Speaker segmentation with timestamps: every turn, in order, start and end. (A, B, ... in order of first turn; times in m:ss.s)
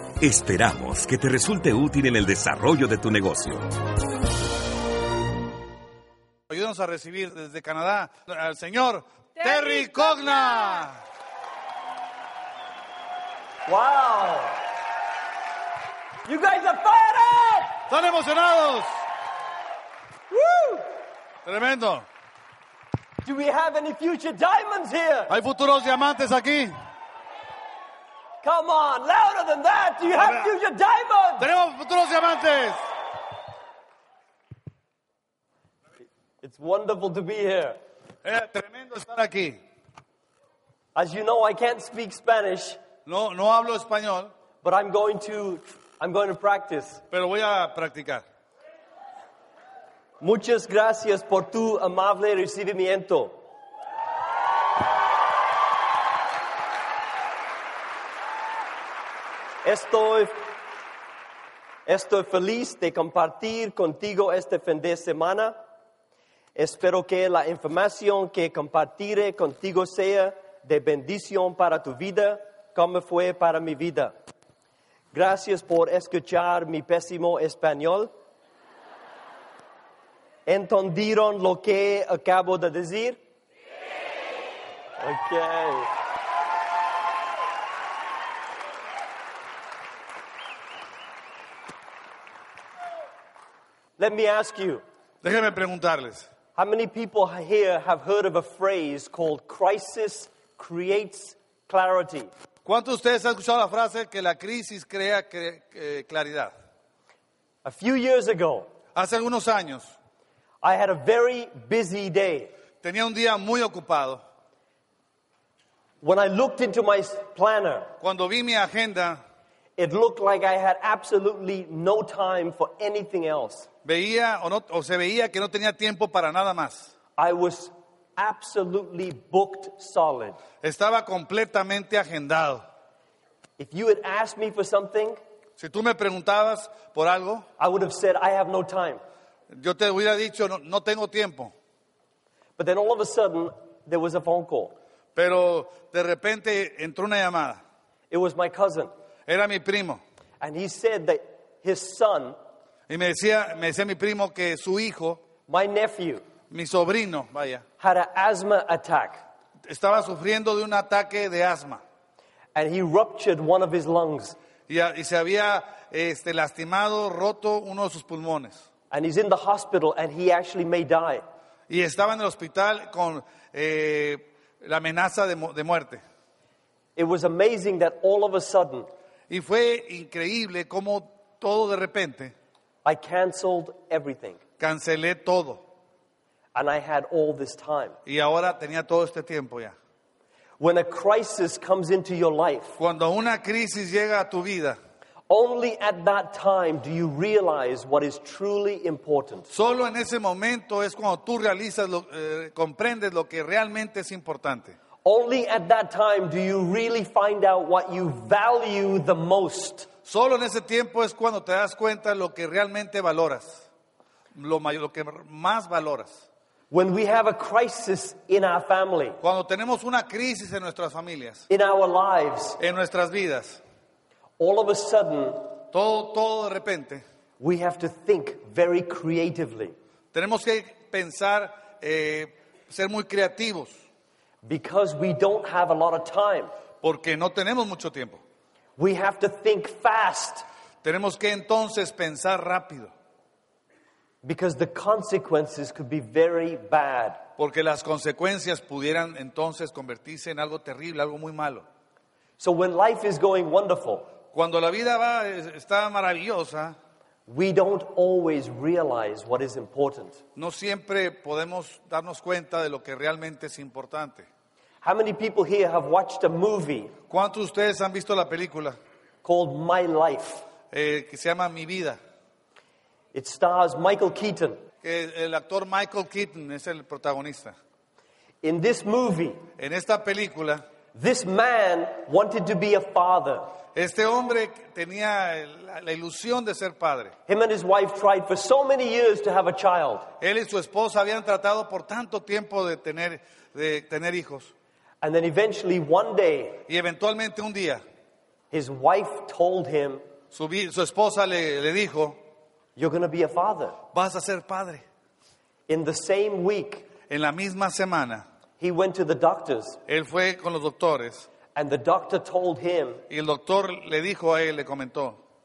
0:00.2-0:03.7 A
0:06.5-0:11.0 B
0:13.7-0:14.6 C
0:16.2-0:17.8 C
0:17.9-0:18.9 B
0:20.3-0:20.9 C
0:21.4-0:22.0 B
0:23.2-0:25.3 C
0:25.3-0:26.7 B
0:28.4-0:31.5 C
0:30.2-0:30.5 B
0:31.4-0:32.8 B
0:36.4-0:37.8 C
0:38.2-0:39.6 B
0:40.9-0:42.8 C
0:43.0-0:44.3 B
0:44.6-0:47.0 C
0:47.1-0:48.2 B
0:50.2-0:53.3 C
0:59.6-1:00.4 C
1:01.8-1:05.6 C
1:06.5-1:14.1 C
1:15.1-1:18.1 C
1:20.5-1:23.2 C
1:25.0-1:25.9 C
1:34.0-1:34.8 C
1:35.2-1:36.3 B
1:36.6-1:42.3 C
1:42.6-1:46.5 B
1:47.6-1:48.7 C
1:48.9-1:49.9 B
1:50.6-1:52.5 C
1:52.8-1:54.2 B
1:56.0-1:57.9 C
1:58.0-1:59.2 B
1:59.8-2:03.7 C
2:03.8-2:06.9 B
2:07.2-2:10.4 C
2:10.6-2:12.6 B
2:13.6-2:15.2 C
2:15.6-2:17.4 B
2:17.6-2:19.0 C
2:19.5-2:21.5 B
2:22.6-2:24.7 C
2:25.2-2:27.6 B
2:28.1-2:28.9 C
2:29.3-2:30.0 B
2:30.4-2:32.4 C
2:32.9-2:35.2 B
2:35.5-2:36.2 C
2:36.5-2:37.6 B
2:37.8-2:39.2 C
2:39.7-2:41.8 B
2:42.5-2:44.4 C
2:44.7-2:48.6 B
2:48.9-2:51.2 C
2:51.7-2:56.0 B
2:57.0-2:58.9 C
2:59.3-3:02.3 B
3:02.8-3:04.4 C
3:04.6-3:05.6 B
3:06.5-3:08.0 C
3:08.0-3:09.7 B
3:10.6-3:12.8 C
3:12.8-3:14.8 B
3:15.3-3:19.5 C
3:19.5-3:24.8 B
3:25.0-3:29.9 C
3:30.0-3:33.7 B
3:34.3-3:36.2 B
3:36.7-3:39.2 C
3:39.2-3:41.4 B
3:41.5-3:42.6 C
3:42.6-3:43.6 B
3:44.4-3:45.5 C
3:45.7-3:47.0 B
3:47.4-3:49.7 C
3:50.1-3:53.8 B
3:54.4-3:56.5 C
3:56.8-3:58.2 B
3:58.8-4:00.4 C
4:00.8-4:02.9 B
4:04.2-4:07.2 C
4:07.4-4:11.6 B
4:12.4-4:14.1 C
4:14.3-4:16.8 B
4:17.3-4:20.2 C
4:20.4-4:24.3 B
4:24.8-4:26.9 C
4:27.1-4:28.8 B
4:29.2-4:30.4 C
4:30.7-4:32.0 B
4:33.1-4:34.6 C
4:34.8-4:37.6 B
4:38.4-4:39.4 C
4:39.6-4:40.6 B
4:40.9-4:43.5 C
4:43.7-4:47.1 B
4:47.3-4:50.1 C
4:50.2-4:54.5 B
4:55.0-4:56.6 C
4:56.7-4:57.8 B
4:58.5-5:00.0 C
5:00.3-5:02.2 B
5:02.8-5:03.8 C
5:03.9-5:04.8 B
5:05.7-5:06.8 C
5:07.1-5:08.2 B
5:08.6-5:09.8 C
5:09.9-5:11.3 B
5:11.5-5:13.0 C
5:13.1-5:15.2 B